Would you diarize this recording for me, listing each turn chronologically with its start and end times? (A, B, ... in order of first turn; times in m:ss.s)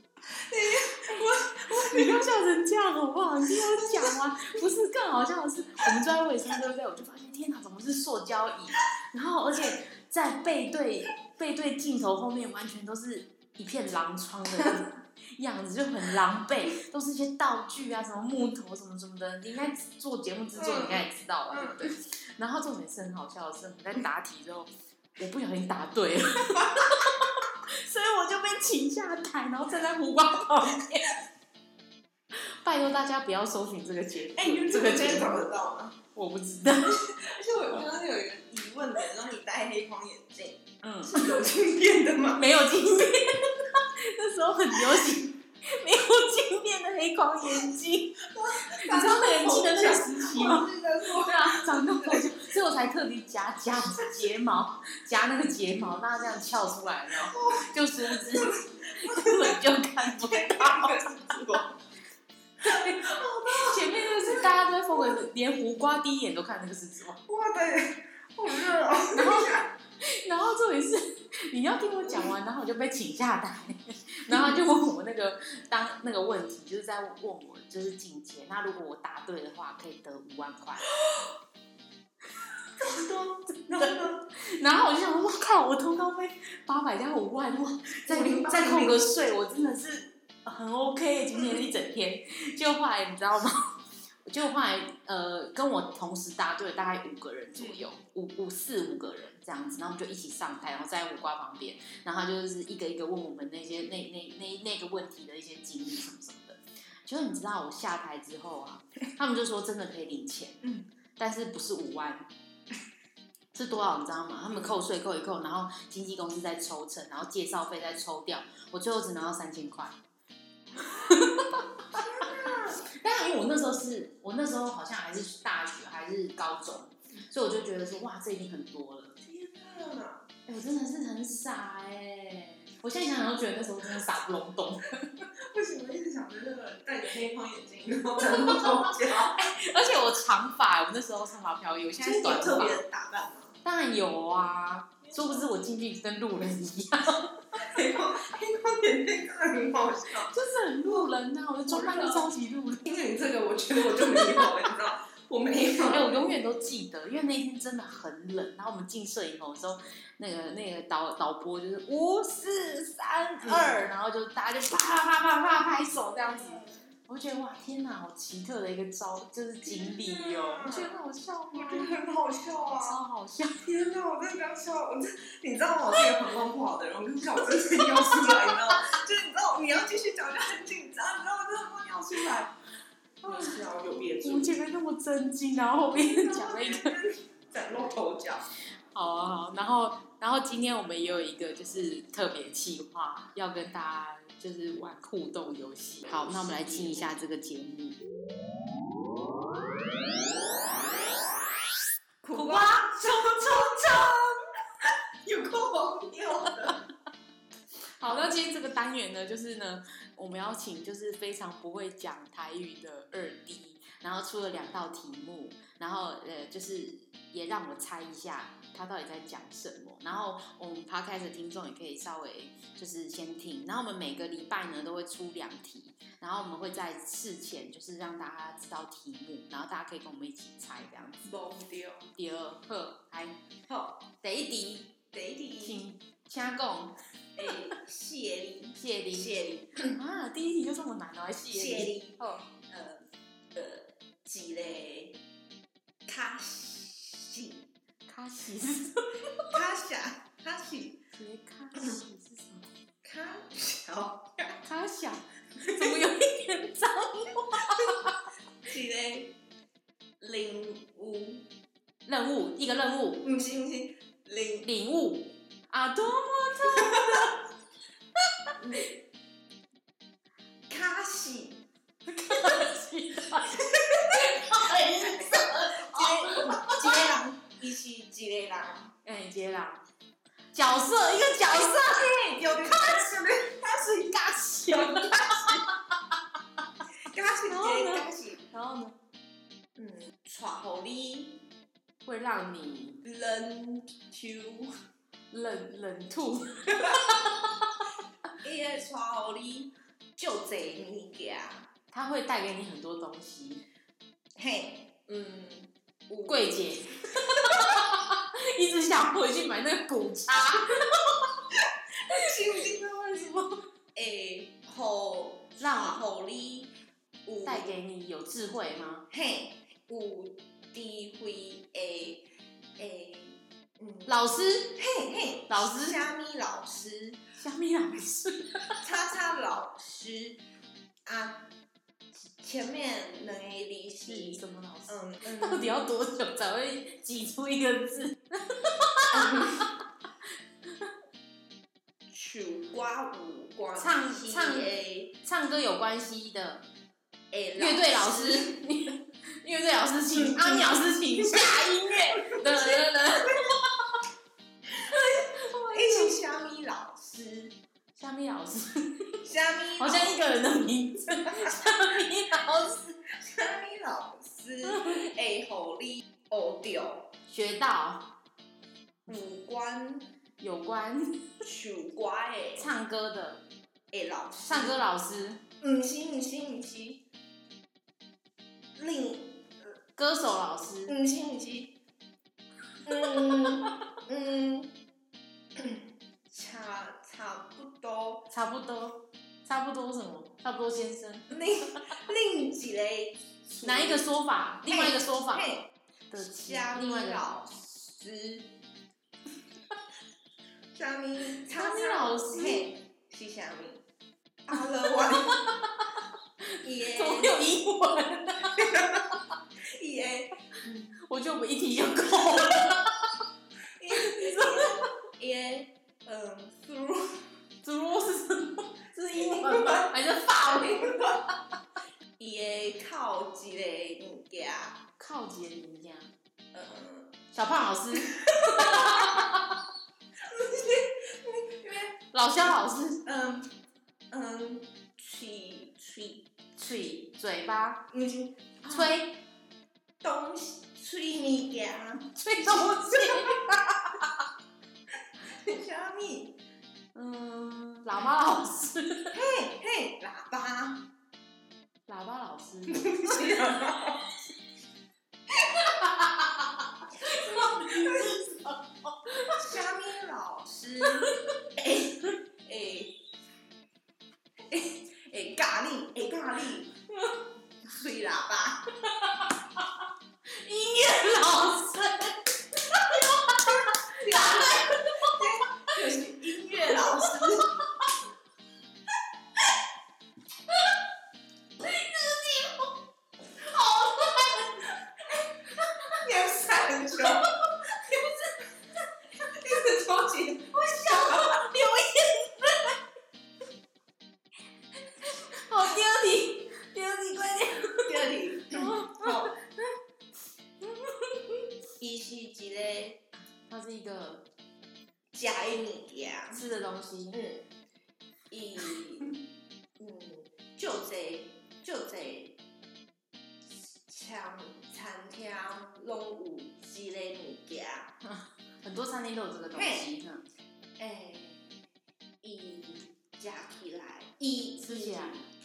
0:00.3-0:02.2 A
0:01.1-0:31.2 B
0:03.5-0:04.6 A
0:20.6-0:21.9 A
0:26.6-0:26.9 A
0:32.3-0:35.4 B
0:34.3-0:36.0 A
0:36.1-0:37.0 B
0:36.8-0:42.5 A
0:40.8-0:41.3 B
0:42.4-1:01.4 B
0:48.3-0:52.3 A
0:57.3-1:01.8 A
1:02.6-1:07.2 B
1:02.6-1:05.2 A
1:07.2-1:09.7 A
1:09.1-1:20.9 B
1:14.3-1:14.6 A
1:22.8-1:24.2 A
1:22.8-1:33.7 B
1:28.1-1:29.0 A
1:34.2-1:50.6 B
1:37.6-1:37.8 A
1:50.6-1:50.9 A
1:51.2-1:52.3 B
1:53.5-2:00.0 B
1:54.5-1:54.8 A
2:00.8-2:09.2 B
2:01.9-2:02.8 A
2:09.2-2:10.3 A
2:10.5-2:15.0 B
2:15.2-2:19.5 A
2:18.2-2:22.8 B
2:22.0-2:23.6 A
2:23.6-2:27.7 B
2:27.6-2:30.3 A
2:30.3-2:32.9 B
2:31.7-2:32.3 A
2:32.8-2:36.2 A
2:34.0-2:34.5 B
2:35.8-2:52.0 B
2:43.4-2:43.8 A
2:49.6-2:51.0 A
2:51.5-2:53.0 A
2:52.8-2:53.6 B
2:53.6-3:02.5 A
2:57.4-2:58.5 B
3:03.2-3:03.5 B
3:03.2-3:04.6 A
3:04.2-3:06.9 B
3:05.9-3:08.5 A
3:08.9-3:18.0 B
3:16.1-3:17.1 A
3:22.2-3:24.3 A
3:22.3-3:24.2 B
3:24.8-3:26.8 A
3:28.0-3:51.3 B
3:51.2-3:52.1 A
3:52.2-3:53.4 B
3:53.7-3:54.1 A
3:54.2-3:55.0 B
3:55.1-3:55.8 A
3:55.6-3:57.0 B
3:57.4-4:00.0 A
3:58.7-4:02.4 B
4:01.5-4:05.2 A
4:06.0-4:07.7 A
4:08.1-4:09.5 B
4:09.5-4:11.0 A
4:11.2-4:12.7 B
4:13.0-4:14.6 A
4:14.6-4:18.2 B
4:15.7-4:16.0 A
4:18.6-4:19.4 A
4:20.2-4:21.5 A
4:22.0-4:23.3 B
4:23.2-4:24.7 A
4:24.6-4:27.4 B
4:26.8-4:27.3 A
4:28.6-4:29.0 A
4:30.7-4:31.6 A
4:32.1-4:37.1 B
4:33.4-4:38.9 A
4:39.0-4:39.8 B
4:40.5-4:46.1 B
4:41.5-4:43.8 A
4:44.7-4:45.6 A
4:47.0-4:48.4 A
4:47.5-4:48.9 B
4:49.8-4:51.4 A
4:52.0-4:53.0 B
4:53.0-4:54.7 A
4:55.3-4:57.8 B
4:56.7-4:57.0 A
4:58.4-5:01.7 A
5:01.9-5:03.6 B
5:04.4-5:06.7 A
5:06.2-5:11.3 B
5:07.3-5:07.8 A
5:11.5-5:16.7 A
5:15.6-5:16.0 B
5:17.2-5:17.7 A
5:17.4-5:19.0 B
5:19.1-5:24.1 A
5:24.0-5:24.7 B
5:24.8-5:27.2 A
5:25.5-5:26.0 B
5:27.4-5:28.8 B
5:28.8-5:30.4 A
5:31.0-5:31.5 A
5:32.2-5:35.8 A
5:34.1-5:39.7 B
5:39.1-5:39.6 A
5:42.1-5:45.2 A
5:43.8-5:46.6 B
5:47.3-5:48.6 A
5:47.6-5:53.6 B
5:50.1-5:53.5 A
5:54.7-5:57.6 A
5:54.8-5:56.2 B
5:58.0-5:59.2 B
5:59.2-6:00.2 A
5:59.8-6:02.8 B
6:01.2-6:02.0 A
6:03.0-6:07.1 A
6:07.3-6:08.1 B
6:09.0-6:10.1 A
6:10.4-6:11.4 B
6:11.4-6:12.7 A
6:12.6-6:13.4 B
6:13.9-6:14.8 A
6:14.4-6:15.4 B
6:15.6-6:17.0 A
6:18.8-6:19.5 A
6:20.0-6:21.0 B
6:20.9-6:21.7 A
6:22.8-6:24.8 A
6:25.5-6:28.3 A
6:28.3-6:31.4 B
6:31.3-6:34.1 A
6:33.6-6:35.6 B
6:34.6-6:38.6 A
6:36.1-6:37.2 B
6:40.7-6:43.8 A
6:41.5-6:42.6 B
6:44.4-6:45.6 A
6:46.4-6:48.8 B
6:46.6-6:47.5 A
6:48.5-6:49.1 A
6:49.6-6:50.9 A
6:51.0-6:53.1 B
6:53.8-6:57.2 A
6:53.9-6:54.7 B
6:57.6-7:01.2 B
6:59.1-7:01.2 A
7:02.2-7:04.8 A
7:05.0-7:06.1 B
7:06.5-7:07.1 A
7:07.3-7:09.6 B
7:08.1-7:09.1 A
7:10.2-7:12.0 A
7:12.1-7:13.0 B
7:13.0-7:13.5 A
7:14.1-7:16.3 A
7:16.6-7:17.8 B
7:17.9-7:19.0 A
7:18.7-7:19.2 B
7:20.0-7:23.4 A
7:22.1-7:24.2 B
7:25.2-7:26.4 A
7:26.9-7:29.1 B
7:29.1-7:30.9 A
7:31.9-7:33.4 B
7:32.7-7:34.1 A
7:35.3-7:35.7 A
7:35.8-7:39.4 B
7:37.1-7:38.2 A
7:39.4-7:43.0 A
7:41.0-7:41.4 B
7:44.5-7:46.8 A
7:47.6-7:48.6 A
7:48.9-7:49.8 B
7:50.3-7:55.2 B
7:53.4-7:57.6 A
7:56.6-7:57.9 B
8:01.6-8:02.7 B
8:03.4-8:04.7 B
8:05.6-8:06.0 B
8:05.9-8:07.3 A
8:07.1-8:08.2 B
8:09.2-8:11.5 A
8:10.5-8:12.7 B
8:15.0-8:19.7 B
8:17.8-8:19.4 A
8:20.6-8:21.4 B
8:21.8-8:23.0 A
8:23.5-8:24.3 B
8:25.1-8:26.4 A
8:26.3-8:27.2 B
8:27.1-8:27.4 A
8:28.3-8:29.2 A
8:29.8-8:32.4 A
8:33.9-8:37.9 A
8:38.1-8:40.2 B
8:39.5-8:39.9 A
8:40.8-8:41.6 A
8:42.2-8:45.2 A
8:44.6-8:45.2 B